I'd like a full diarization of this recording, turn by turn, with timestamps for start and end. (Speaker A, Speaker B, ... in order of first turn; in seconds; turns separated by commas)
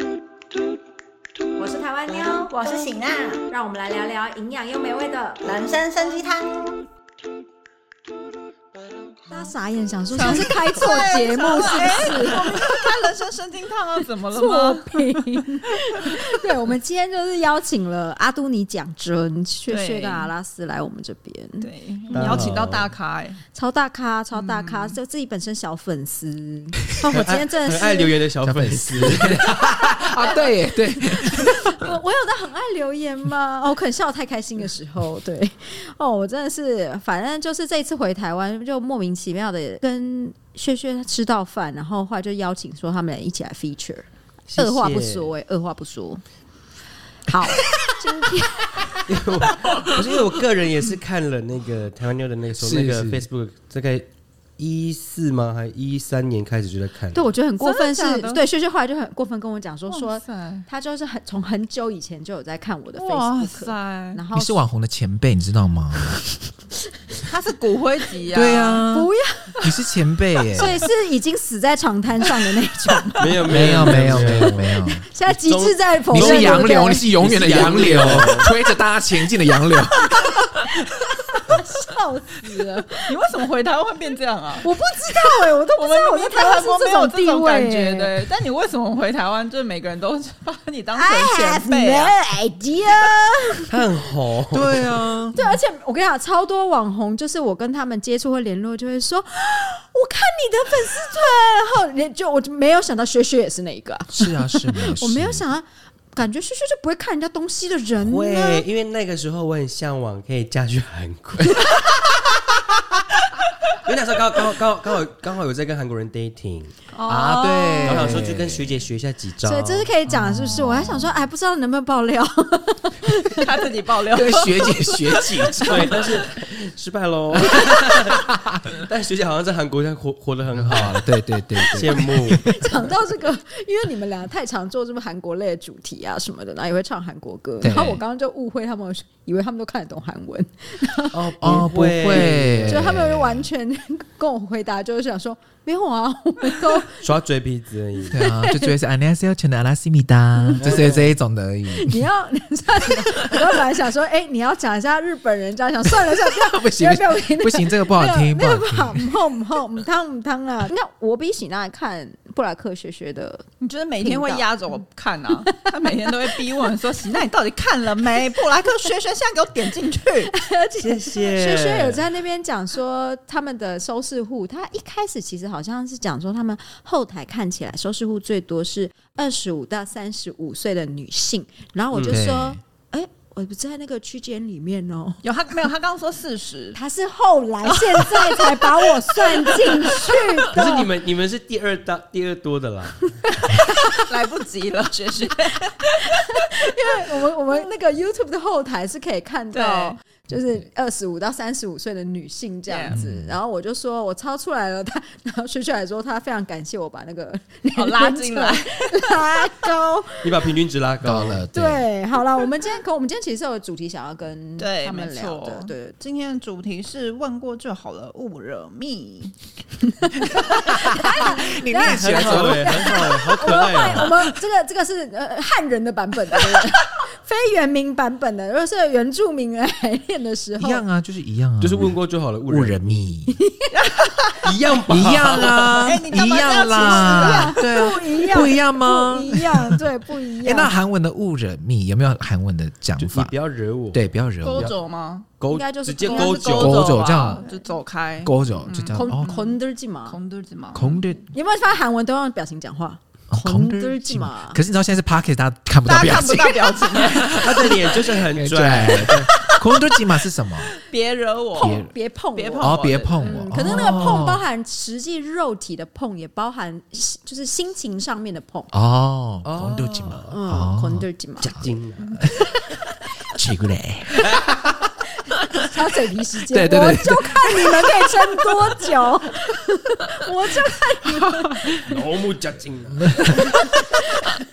Speaker A: 1.6-2.5, Speaker B: 2.1-3.4, Speaker A: 3.5-5.4, Speaker B: 5.4-6.9, Speaker A: 9.3-12.8, Speaker C: 10.1-15.4, Speaker A: 14.3-22.6, Speaker C: 19.7-20.3, Speaker C: 21.6-23.4, Speaker D: 22.1-22.9, Speaker A: 23.5-28.2, Speaker C: 24.3-25.0, Speaker D: 27.1-29.6, Speaker E: 28.4-31.9, Speaker A: 31.2-46.2, Speaker D: 44.5-45.3, Speaker A: 47.2-49.0, Speaker D: 49.0-57.3, Speaker E: 52.6-53.2, Speaker A: 57.1-64.6, Speaker C: 57.6-58.4, Speaker C: 59.9-60.7, Speaker C: 62.9-64.2, Speaker E: 64.3-66.2, Speaker C: 67.3-68.9, Speaker E: 68.3-69.1, Speaker A: 68.9-69.7, Speaker E: 69.6-70.8, Speaker A: 70.5-78.5, Speaker D: 73.2-74.6, Speaker E: 73.5-75.0, Speaker D: 75.2-78.5, Speaker E: 76.1-80.9, Speaker A: 81.2-83.1, Speaker C: 82.6-84.7, Speaker A: 84.6-88.2, Speaker C: 85.8-92.2, Speaker A: 90.9-93.8, Speaker D: 93.7-95.0, Speaker E: 94.5-95.4, Speaker A: 95.3-108.6, Speaker E: 104.1-105.5, Speaker D: 108.0-112.0, Speaker D: 113.7-116.7, Speaker C: 116.9-118.2, Speaker E: 117.1-118.8, Speaker D: 117.8-119.9, Speaker A: 119.4-123.6, Speaker E: 120.1-121.1, Speaker C: 123.3-126.0, Speaker E: 124.1-126.2, Speaker D: 125.6-132.6, Speaker E: 127.4-128.3, Speaker E: 130.5-132.5, Speaker A: 132.2-141.3, Speaker E: 137.6-138.0, Speaker D: 141.1-142.9, Speaker E: 141.4-143.5, Speaker A: 142.1-147.0, Speaker D: 147.0-148.2, Speaker E: 148.1-152.0, Speaker A: 148.1-148.7, Speaker A: 150.4-150.6, Speaker D: 150.6-151.1, Speaker A: 151.7-163.5, Speaker E: 155.8-159.1, Speaker C: 163.6-170.3, Speaker A: 164.0-164.5, Speaker A: 165.5-166.6, Speaker A: 170.3-185.2, Speaker D: 170.8-172.0, Speaker D: 181.9-182.2, Speaker E: 182.0-182.6, Speaker C: 185.2-186.8, Speaker A: 186.7-190.8, Speaker C: 187.7-190.2, Speaker D: 190.5-193.1, Speaker A: 193.3-194.1, Speaker C: 193.8-197.5, Speaker A: 195.9-210.5, Speaker C: 199.5-199.9, Speaker C: 202.7-203.0, Speaker E: 202.9-203.4, Speaker C: 207.7-208.9, Speaker D: 210.2-211.4, Speaker E: 211.0-211.9, Speaker A: 211.5-215.9, Speaker C: 214.6-219.3, Speaker C: 220.0-220.5, Speaker A: 220.3-230.8, Speaker E: 220.5-224.3, Speaker D: 221.8-224.2, Speaker E: 230.6-233.3, Speaker D: 231.6-233.1, Speaker A: 233.3-233.7, Speaker C: 233.7-234.4, Speaker D: 234.4-236.0, Speaker E: 234.9-239.8, Speaker C: 235.2-237.7, Speaker A: 236.4-240.7, Speaker E: 240.4-243.3, Speaker D: 243.0-244.8, Speaker E: 243.9-244.7, Speaker C: 244.4-245.3, Speaker D: 245.4-246.9, Speaker A: 245.5-247.7, Speaker C: 246.0-251.0, Speaker E: 246.5-247.4, Speaker E: 248.2-249.3, Speaker A: 248.9-250.2, Speaker E: 250.7-251.3, Speaker A: 251.3-254.6, Speaker E: 253.3-260.7, Speaker C: 255.9-258.2, Speaker D: 257.2-259.3, Speaker C: 258.8-259.9, Speaker C: 260.6-261.8, Speaker E: 261.6-261.9, Speaker A: 261.6-268.7, Speaker C: 262.4-264.2, Speaker E: 262.6-264.4, Speaker E: 268.7-272.4, Speaker D: 269.4-270.4, Speaker A: 270.3-271.5, Speaker D: 271.4-272.2, Speaker E: 273.3-274.9, Speaker E: 275.4-275.7, Speaker A: 275.6-281.9, Speaker E: 276.5-278.9, Speaker D: 281.8-283.6, Speaker E: 283.0-284.0, Speaker A: 283.3-284.3